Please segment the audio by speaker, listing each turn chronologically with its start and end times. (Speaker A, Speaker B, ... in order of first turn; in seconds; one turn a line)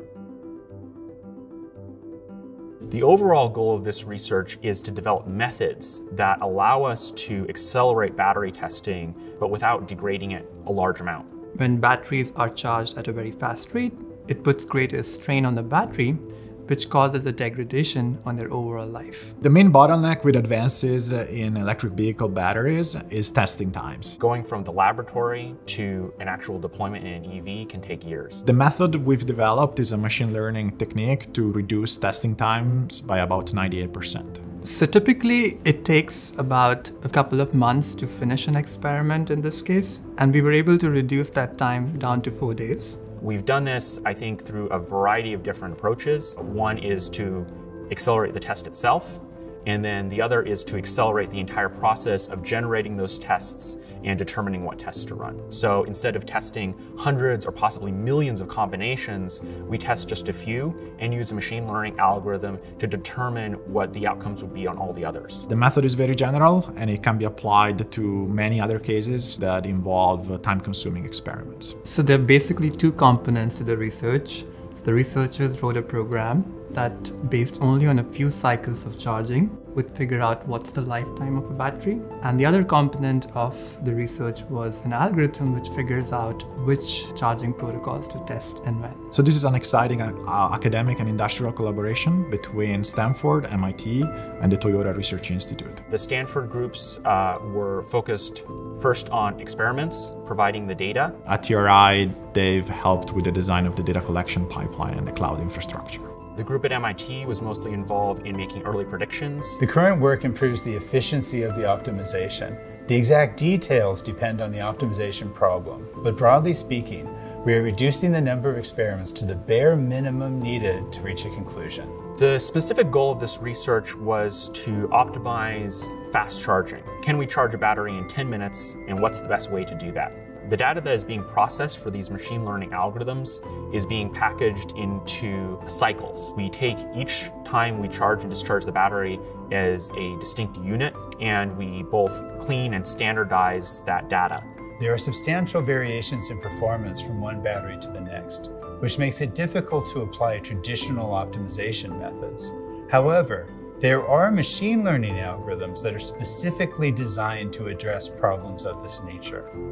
Speaker A: 2.9-11.3
Speaker B: 11.5-19.3
Speaker C: 19.4-24.2
Speaker A: 24.2-28.4
Speaker C: 28.4-34.4
Speaker B: 34.6-43.0
Speaker A: 43.2-65.5
Speaker C: 65.5-71.7
Speaker B: 71.8-89.0
Speaker C: 89.1-95.8
Speaker A: 95.9-101.2
Speaker C: 101.2-106.1
Speaker A: 106.3-109.6
Speaker D: 109.6-121.9
Speaker A: 122.1-144.5
Speaker D: 144.8-159.5